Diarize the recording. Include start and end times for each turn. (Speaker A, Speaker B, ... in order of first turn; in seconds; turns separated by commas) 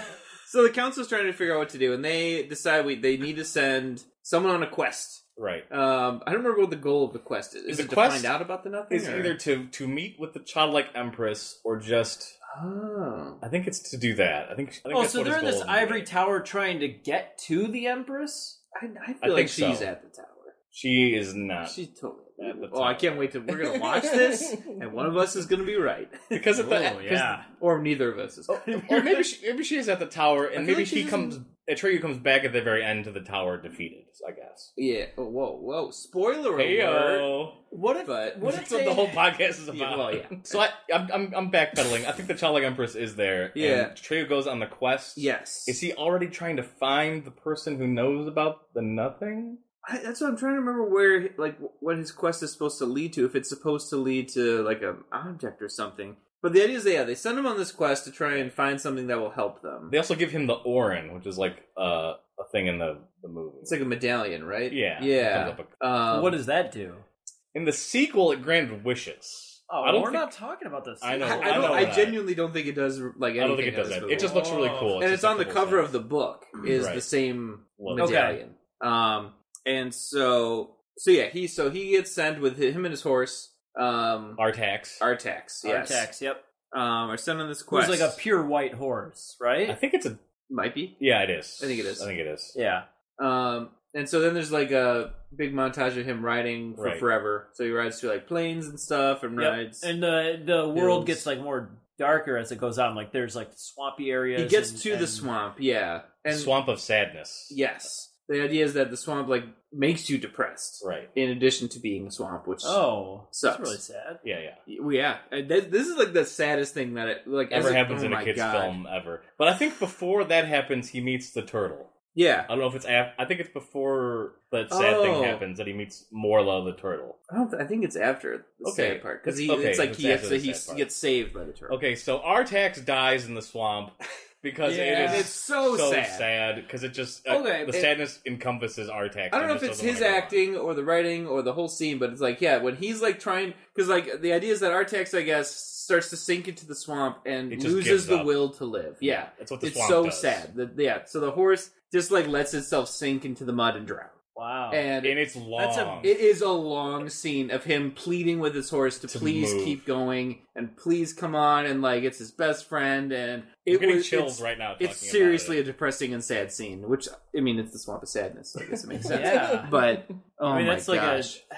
Speaker A: 0.5-9.3, Speaker B: 5.3-5.7, Speaker B: 7.7-8.3, Speaker B: 8.9-12.4, Speaker A: 12.5-13.4, Speaker B: 13.4-16.1, Speaker C: 14.9-18.6, Speaker A: 18.7-20.5, Speaker B: 19.2-19.9, Speaker B: 20.7-21.8, Speaker A: 21.6-26.4, Speaker B: 22.4-25.4, Speaker B: 26.3-27.4, Speaker C: 26.6-27.5, Speaker A: 27.5-29.2, Speaker B: 28.5-34.7, Speaker A: 30.6-31.4, Speaker A: 34.8-37.3, Speaker B: 36.5-37.6, Speaker C: 37.7-39.2, Speaker A: 38.0-38.4, Speaker B: 38.4-49.6, Speaker A: 39.7-40.6, Speaker A: 43.5-43.9, Speaker A: 45.1-45.8, Speaker A: 49.8-60.0, Speaker B: 59.9-63.8, Speaker A: 63.6-66.4, Speaker B: 64.7-65.7, Speaker C: 66.1-67.0, Speaker B: 67.5-70.3, Speaker C: 69.7-72.0, Speaker B: 71.0-72.2, Speaker A: 71.2-74.3, Speaker B: 73.4-75.9, Speaker C: 74.1-75.0, Speaker A: 75.0-84.4, Speaker B: 76.7-77.1, Speaker B: 77.8-78.1, Speaker C: 78.0-78.4, Speaker B: 84.4-85.0, Speaker A: 85.0-86.1, Speaker C: 85.6-86.4, Speaker A: 86.7-88.2, Speaker C: 87.7-89.8, Speaker B: 89.7-90.2, Speaker A: 90.5-91.0, Speaker B: 91.0-92.5, Speaker A: 91.6-92.0, Speaker C: 92.5-92.8, Speaker A: 93.2-99.9, Speaker B: 96.8-97.0, Speaker C: 99.4-105.3, Speaker A: 100.7-101.2, Speaker A: 104.3-106.5, Speaker B: 106.3-107.6, Speaker A: 107.5-112.8, Speaker B: 110.8-111.1, Speaker C: 112.6-114.2, Speaker A: 113.3-113.8, Speaker B: 114.2-114.6, Speaker A: 114.7-118.8, Speaker B: 117.5-121.9, Speaker A: 122.1-122.5, Speaker B: 122.5-127.2, Speaker A: 124.7-125.4, Speaker A: 127.3-131.8, Speaker B: 128.6-130.9, Speaker B: 131.7-140.4, Speaker C: 134.6-135.3, Speaker A: 135.0-136.2, Speaker C: 137.3-137.9, Speaker A: 139.3-154.1, Speaker B: 147.5-148.5, Speaker B: 149.0-150.5, Speaker C: 154.3-154.8, Speaker A: 154.7-155.2, Speaker B: 155.0-156.1, Speaker C: 155.6-156.2, Speaker A: 156.0-171.4, Speaker B: 159.1-159.9, Speaker B: 163.7-165.6, Speaker B: 169.0-170.1, Speaker C: 169.1-169.7, Speaker C: 170.5-171.4